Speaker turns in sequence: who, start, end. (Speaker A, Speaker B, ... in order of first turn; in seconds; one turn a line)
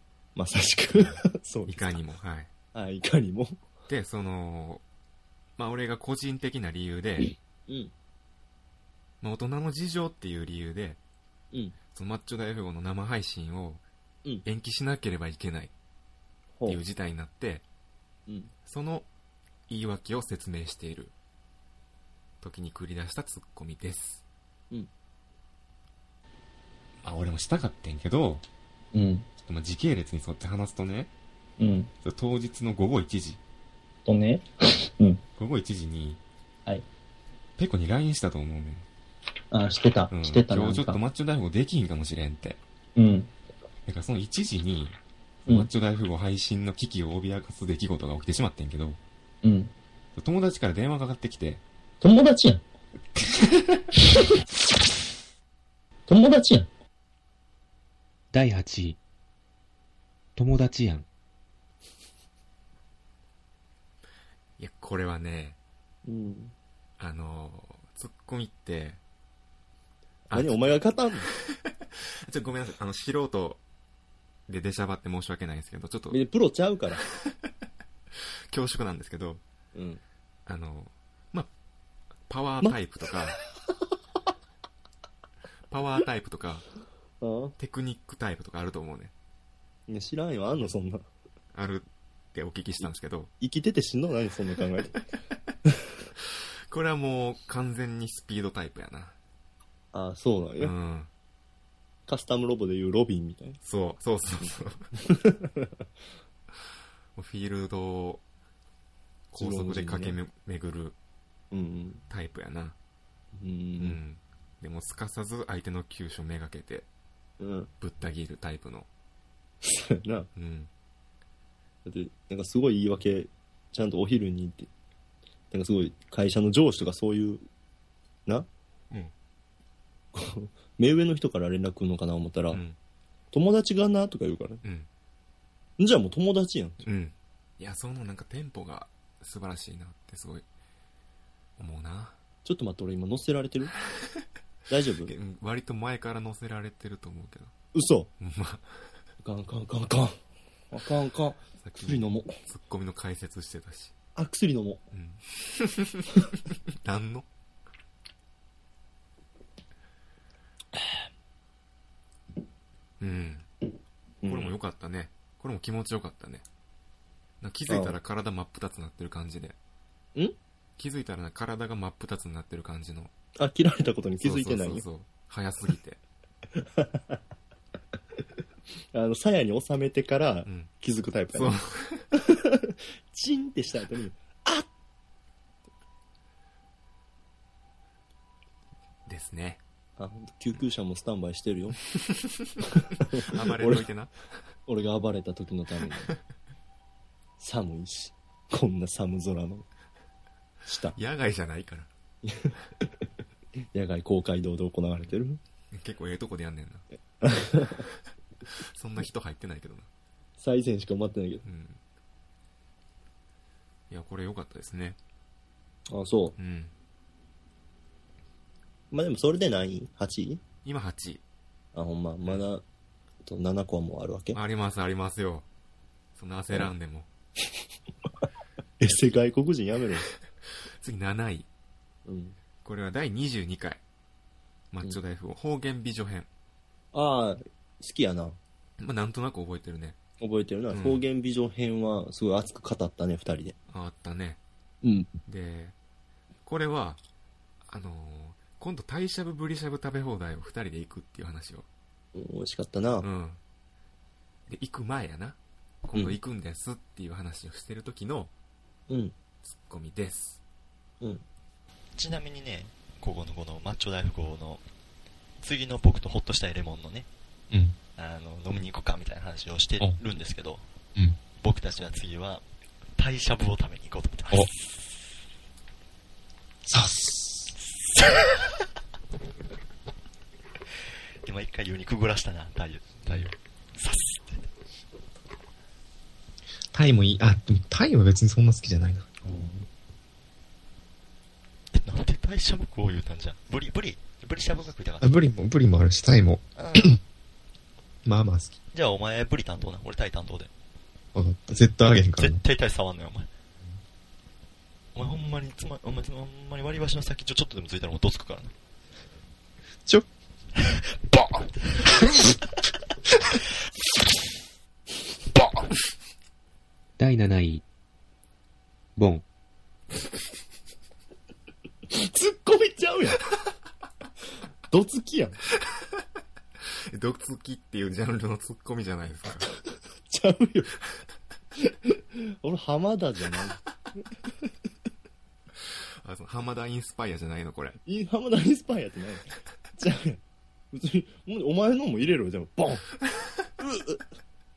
Speaker A: 0.3-1.9
Speaker B: 1.0-2.5
Speaker A: 2.7-3.6
Speaker B: 3.9-4.8
Speaker B: 5.6-7.3
Speaker A: 7.7-7.9
Speaker B: 9.2-11.0
Speaker B: 11.9-13.8
Speaker B: 14.4-15.7
Speaker A: 16.6-16.8
Speaker B: 16.6-17.6
Speaker A: 18.3-18.5
Speaker B: 18.6-19.1
Speaker B: 19.7-21.1
Speaker B: 22.4-24.2
Speaker B: 27.0-28.4
Speaker B: 29.4-31.1
Speaker A: 31.6-31.9
Speaker B: 32.0-33.4
Speaker A: 34.1-34.4
Speaker B: 35.4-36.2
Speaker B: 37.6-38.9
Speaker A: 39.5-40.9
Speaker B: 40.1-42.6
Speaker B: 43.9-49.0
Speaker B: 50.1-51.6
Speaker A: 52.0-52.6
Speaker A: 56.1-56.7
Speaker C: 58.3-59.0
Speaker C: 60.4-61.0
Speaker B: 64.6-65.6
Speaker A: 66.0-66.5
Speaker B: 67.0-69.0
Speaker B: 70.3-70.8
Speaker A: 70.3-71.3
Speaker B: 71.4-73.6
Speaker B: 74.5-76.2
Speaker A: 76.1-77.0
Speaker B: 78.1-79.4
Speaker A: 79.7-80.0
Speaker B: 80.5-81.5
Speaker B: 82.3-83.4
Speaker B: 85.7-86.7
Speaker A: 87.2-87.5
Speaker B: 87.6-89.1
Speaker A: 89.9-91.0
Speaker B: 91.5-93.3
Speaker A: 93.4-94.9
Speaker B: 96.2-99.1
Speaker A: 99.9-100.7
Speaker B: 100.6-101.1
Speaker A: 102.1-103.6
Speaker B: 103.6-104.8
Speaker A: 105.0-105.8
Speaker B: 107.1-108.2
Speaker B: 109.3-111.0
Speaker A: 109.3-110.2
Speaker A: 111.5-112.0
Speaker B: 112.1-112.8
Speaker A: 113.3-114.0
Speaker B: 113.8-116.9
Speaker A: 117.4-117.7
Speaker B: 117.8-118.9
Speaker A: 119.6-120.3
Speaker B: 120.3-120.7
Speaker A: 121.8-124.7
Speaker A: 125.5-127.4
Speaker A: 130.1-132.6
Speaker B: 132.5-132.8
Speaker A: 133.3-134.6
Speaker B: 134.6-134.9
Speaker A: 135.8-136.9
Speaker B: 136.8-140.4
Speaker B: 141.6-142.2
Speaker A: 142.4-143.7
Speaker A: 144.7-145.1
Speaker B: 145.1-147.5
Speaker A: 147.7-148.1
Speaker B: 148.2-148.9
Speaker A: 149.2-150.2
Speaker A: 150.7-152.4
Speaker B: 151.6-153.9
Speaker A: 154.1-154.8
Speaker B: 154.9-157.3
Speaker B: 163.0-163.5
Speaker A: 164.2-164.5
Speaker B: 164.3-166.4
Speaker B: 167.4-169.6
Speaker A: 167.7-168.0
Speaker B: 170.8-173.1
Speaker A: 173.4-174.8
Speaker B: 174.2-176.0
Speaker A: 176.6-177.2
Speaker A: 178.9-181.6
Speaker B: 181.3-182.1
Speaker A: 182.1-184.7
Speaker B: 189.1-189.6
Speaker A: 190.0-191.8
Speaker B: 191.9-192.6
Speaker A: 193.0-193.9
Speaker B: 193.2-194.1
Speaker A: 194.7-196.1
Speaker A: 197.4-199.7
Speaker A: 200.6-201.0
Speaker B: 200.9-201.9
Speaker A: 202.2-203.0
Speaker A: 203.7-205.4
Speaker B: 205.7-206.8
Speaker A: 207.2-207.9
Speaker B: 208.5-209.9
Speaker A: 210.4-211.4
Speaker B: 211.4-211.8
Speaker B: 213.9-215.0
Speaker A: 215.9-216.4
Speaker B: 216.4-216.7
Speaker A: 218.9-220.4
Speaker B: 220.6-221.2
Speaker A: 221.7-222.6
Speaker A: 223.2-224.4
Speaker B: 224.3-225.5
Speaker B: 226.1-227.1
Speaker A: 228.8-230.1
Speaker B: 230.7-231.5
Speaker A: 232.1-232.4
Speaker B: 232.6-233.8
Speaker B: 234.7-236.3
Speaker A: 236.9-238.4
Speaker B: 238.8-240.0
Speaker A: 240.2-243.6
Speaker B: 240.7-241.0
Speaker B: 243.7-244.4
Speaker A: 244.8-245.1
Speaker B: 245.2-245.8
Speaker B: 246.4-247.0
Speaker B: 247.7-251.7
Speaker A: 252.1-253.1
Speaker B: 253.0-253.4
Speaker B: 254.5-258.3
Speaker A: 258.9-259.1
Speaker B: 259.4-260.4
Speaker D: 261.9-264.6
Speaker D: 265.4-267.1
Speaker D: 267.9-270.6
Speaker D: 271.4-272.4
Speaker D: 273.0-274.6
Speaker E: 276.7-277.5
Speaker D: 277.8-278.4
Speaker D: 281.2-284.5
Speaker B: 286.7-288.5
Speaker E: 287.1-289.0
Speaker A: 289.2-289.6
Speaker D: 291.7-295.1
Speaker E: 295.0-296.9
Speaker D: 296.6-297.0
Speaker E: 298.0-298.5
Speaker D: 298.7-300.5
Speaker E: 301.1-302.4
Speaker D: 302.1-303.3
Speaker D: 304.9-308.5
Speaker D: 310.6-312.3
Speaker D: 315.3-315.7
Speaker C: 317.0-317.6
Speaker C: 319.0-319.2
Speaker A: 321.9-323.2
Speaker A: 324.7-325.4
Speaker B: 326.6-329.5
Speaker A: 330.1-330.7
Speaker A: 331.6-333.6
Speaker B: 335.6-337.8
Speaker A: 337.9-340.2
Speaker A: 340.7-342.9
Speaker A: 343.6-344.0